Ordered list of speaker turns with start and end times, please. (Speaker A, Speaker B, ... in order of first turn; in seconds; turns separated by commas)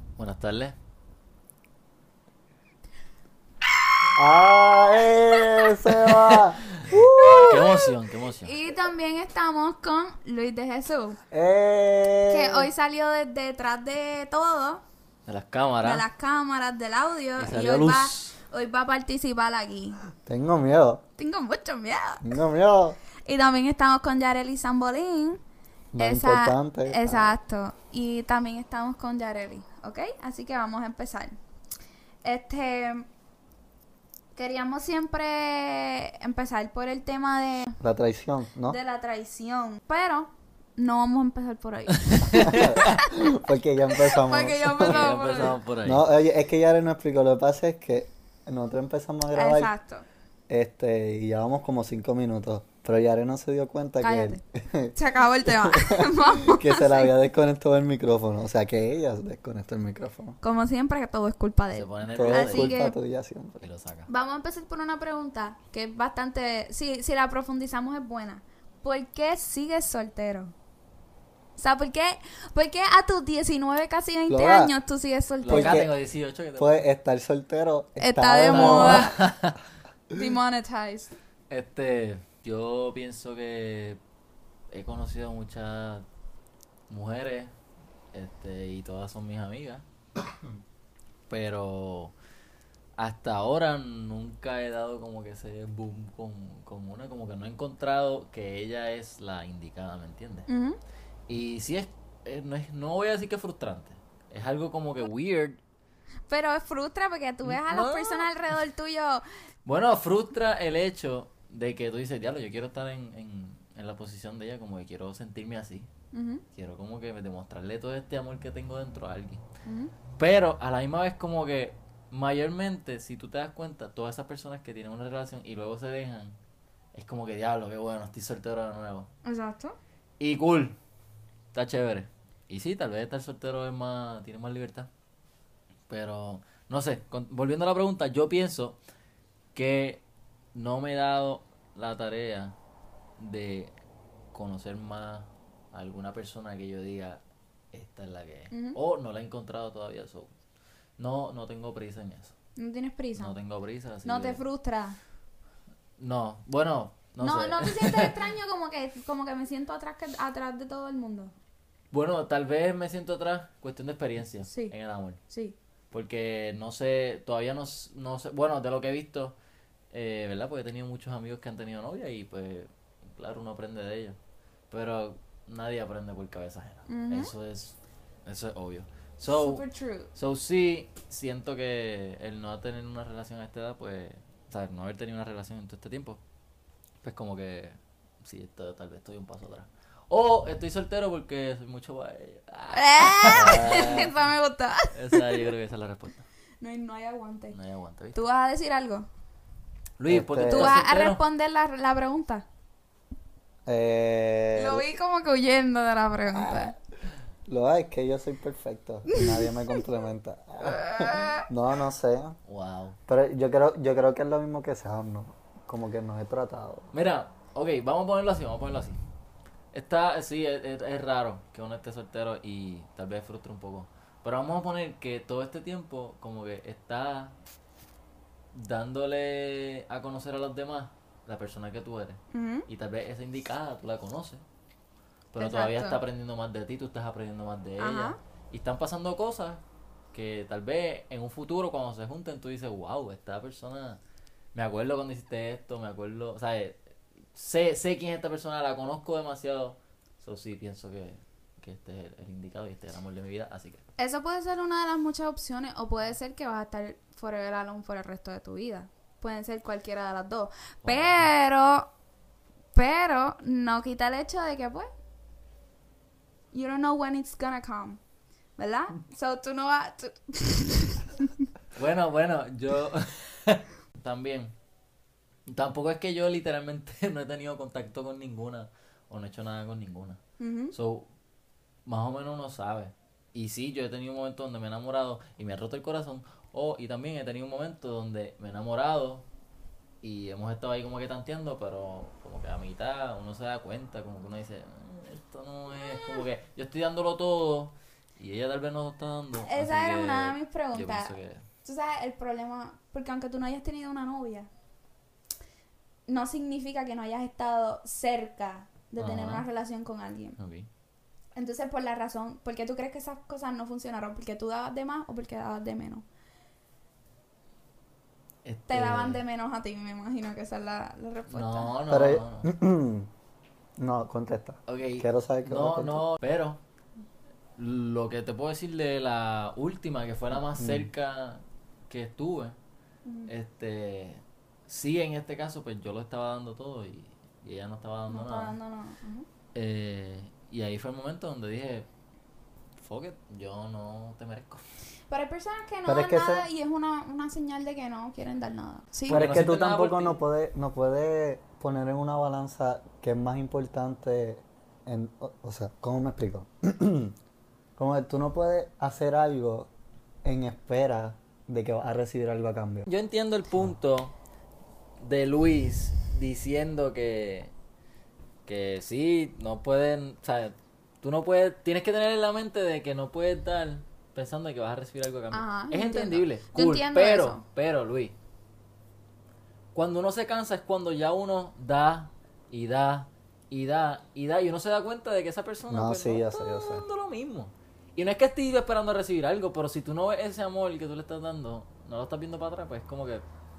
Speaker A: 0.2-0.7, Speaker B: 4.2-8.0, Speaker C: 5.1-5.7, Speaker A: 6.0-8.5, Speaker C: 8.4-11.2, Speaker B: 11.3-12.7, Speaker C: 12.3-14.8, Speaker A: 15.3-16.1, Speaker C: 15.8-20.0, Speaker A: 17.4-18.4, Speaker B: 20.2-21.0, Speaker C: 21.2-22.4, Speaker B: 22.2-23.0, Speaker C: 23.2-25.4, Speaker B: 25.9-27.3, Speaker C: 26.0-31.4, Speaker C: 32.2-33.0, Speaker C: 34.3-37.8, Speaker B: 37.8-38.8, Speaker C: 38.7-43.3, Speaker A: 42.0-43.0, Speaker B: 42.3-49.7, Speaker C: 43.9-45.6, Speaker A: 44.8-46.0, Speaker C: 49.3-50.0, Speaker B: 50.5-60.4, Speaker C: 54.0-54.4, Speaker C: 54.9-57.1, Speaker C: 60.4-63.0, Speaker A: 61.7-62.8, Speaker B: 62.1-63.5, Speaker A: 63.6-64.1, Speaker C: 64.1-70.5, Speaker C: 71.6-75.8, Speaker B: 74.3-74.7, Speaker A: 75.4-76.8, Speaker B: 75.5-75.9, Speaker B: 76.6-79.2, Speaker C: 78.0-79.2, Speaker A: 78.5-79.6, Speaker C: 80.1-81.1, Speaker A: 81.5-84.0, Speaker A: 84.7-86.1, Speaker A: 86.9-87.5, Speaker A: 88.1-89.8, Speaker A: 91.3-92.1, Speaker A: 93.0-100.5, Speaker C: 100.5-100.8, Speaker A: 101.3-105.6, Speaker C: 106.3-109.2, Speaker A: 107.4-108.3, Speaker A: 109.6-115.9, Speaker C: 116.1-116.4, Speaker A: 116.5-119.4, Speaker C: 119.7-119.9, Speaker A: 120.2-126.3, Speaker A: 126.9-129.1, Speaker C: 129.2-129.8, Speaker A: 130.2-130.8, Speaker A: 131.5-134.9, Speaker A: 135.9-138.8, Speaker A: 139.5-140.0, Speaker A: 140.5-142.5, Speaker A: 143.2-143.7, Speaker A: 144.3-147.2, Speaker A: 147.7-150.3, Speaker C: 148.5-148.8, Speaker A: 151.0-152.3, Speaker C: 152.6-153.3, Speaker A: 153.2-154.4, Speaker C: 154.0-155.0, Speaker A: 156.0-158.2, Speaker C: 157.2-161.3, Speaker A: 161.9-165.2, Speaker C: 164.5-164.7, Speaker C: 165.3-165.6, Speaker A: 165.9-169.3, Speaker A: 169.9-174.2, Speaker A: 174.7-179.6, Speaker C: 176.9-177.3, Speaker C: 179.2-180.1, Speaker A: 180.2-186.2, Speaker A: 187.0-194.1, Speaker C: 192.7-195.5, Speaker B: 193.3-194.1, Speaker A: 194.9-196.2, Speaker C: 196.6-197.6, Speaker A: 197.5-198.2, Speaker C: 198.1-199.1, Speaker A: 200.0-201.2, Speaker B: 200.1-200.8, Speaker C: 200.5-202.4, Speaker B: 203.7-204.8, Speaker C: 204.5-206.7, Speaker B: 206.3-206.8, Speaker B: 207.5-212.4, Speaker C: 209.1-209.4, Speaker C: 210.6-211.5, Speaker A: 212.5-213.0, Speaker B: 213.1-216.9, Speaker A: 216.9-219.0, Speaker A: 219.7-227.3, Speaker A: 228.5-234.4, Speaker C: 232.3-232.7, Speaker A: 235.3-239.6, Speaker C: 235.4-236.0, Speaker C: 237.8-238.2, Speaker A: 240.1-244.0, Speaker A: 244.6-246.8, Speaker A: 247.3-253.8, Speaker C: 254.0-261.9, Speaker A: 260.8-261.2, Speaker C: 262.7-264.9, Speaker C: 266.5-268.0, Speaker C: 268.6-271.3, Speaker A: 271.8-274.6, Speaker A: 275.5-280.2, Speaker C: 280.4-280.7, Speaker A: 280.7-281.1, Speaker A: 281.9-289.2, Speaker A: 290.0-301.4, Speaker C: 295.9-296.2, Speaker C: 299.5-304.5, Speaker C: 306.1-310.4, Speaker A: 309.0-309.4, Speaker A: 310.4-310.7, Speaker C: 311.4-316.0, Speaker A: 318.4-319.2, Speaker C: 318.7-321.7, Speaker A: 321.3-322.5, Speaker B: 321.9-323.1, Speaker B: 323.8-326.0, Speaker A: 324.7-326.6, Speaker A: 327.6-332.6, Speaker B: 330.6-330.9, Speaker C: 333.1-333.3, Speaker A: 333.3-338.5, Speaker C: 338.1-339.3, Speaker A: 339.5-341.9, Speaker A: 342.8-344.6, Speaker C: 345.1-349.2, Speaker B: 345.9-346.5, Speaker A: 349.1-350.2, Speaker B: 349.1-357.1, Speaker B: 357.8-359.7, Speaker B: 360.2-362.9, Speaker A: 362.9-364.1, Speaker A: 365.0-367.5, Speaker A: 368.4-378.1, Speaker C: 375.3-377.4, Speaker A: 379.7-393.2, Speaker B: 385.7-386.8